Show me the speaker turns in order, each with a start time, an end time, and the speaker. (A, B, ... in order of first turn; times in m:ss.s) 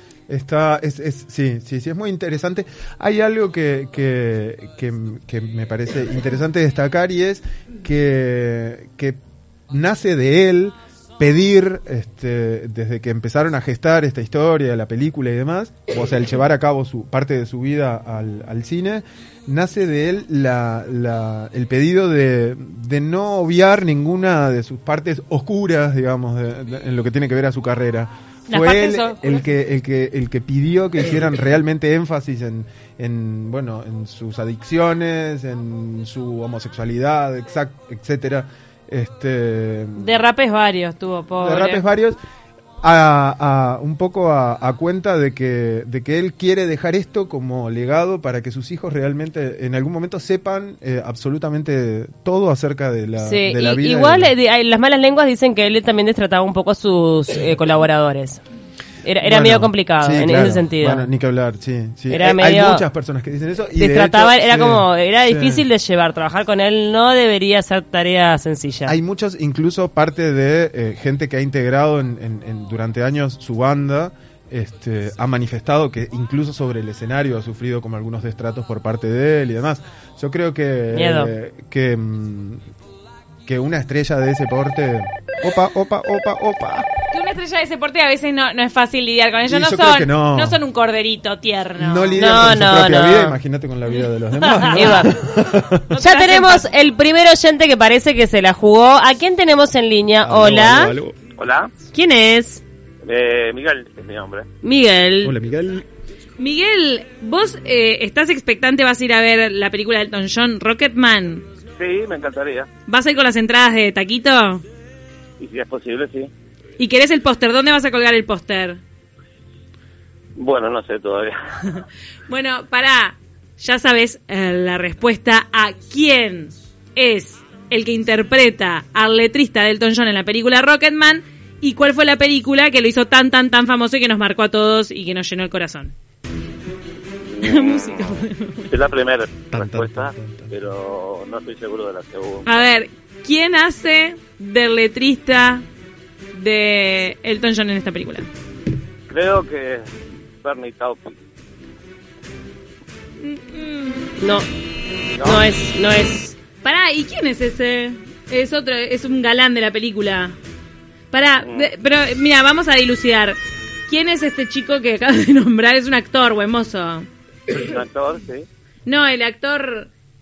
0:00.3-0:09.2 A
0:09.7-0:40.2 A
0:28.5-0:29.5 B
0:40.0-0:41.8 B
0:41.4-0:42.2 A
0:42.8-0:54.3 A
0:53.2-0:58.4 C
0:59.0-1:01.1 C
0:59.2-1:05.7 A
1:02.1-1:02.9 C
1:03.8-1:09.0 C
1:08.9-1:22.6 A
1:20.9-1:21.3 C
1:23.5-1:26.9 A
1:27.1-1:32.2 B
1:29.4-1:30.6 A
1:31.8-1:35.9 A
1:32.2-1:33.4 C
1:34.3-1:35.1 B
1:34.7-1:35.1 C
1:35.9-1:36.7 B
1:36.0-1:41.0 C
1:40.2-1:41.2 A
1:41.4-1:41.7 D
1:41.9-1:42.6 C
1:43.1-1:44.4 D
1:44.6-1:45.4 C
1:45.2-1:45.8 A
1:46.4-1:51.4 B
1:51.8-1:52.7 D
1:52.9-1:54.6 B
1:55.4-1:56.3 D
1:56.8-1:58.8 B
2:00.4-2:01.3 D
2:02.3-2:15.9 B
2:17.3-2:18.1 D
2:17.4-2:18.7 B
2:18.7-2:22.6 D
2:19.5-2:20.6 A
2:22.5-2:25.6 B
2:26.3-2:28.3 B
2:29.1-2:29.9 D
2:30.4-2:31.2 D
2:33.2-2:34.1 B
2:34.2-2:34.5 C
2:35.2-2:35.5 D
2:35.2-2:36.4 C
2:36.6-2:40.4 B
2:41.1-2:47.1 B
2:47.5-2:48.5 D
2:48.9-2:49.9 B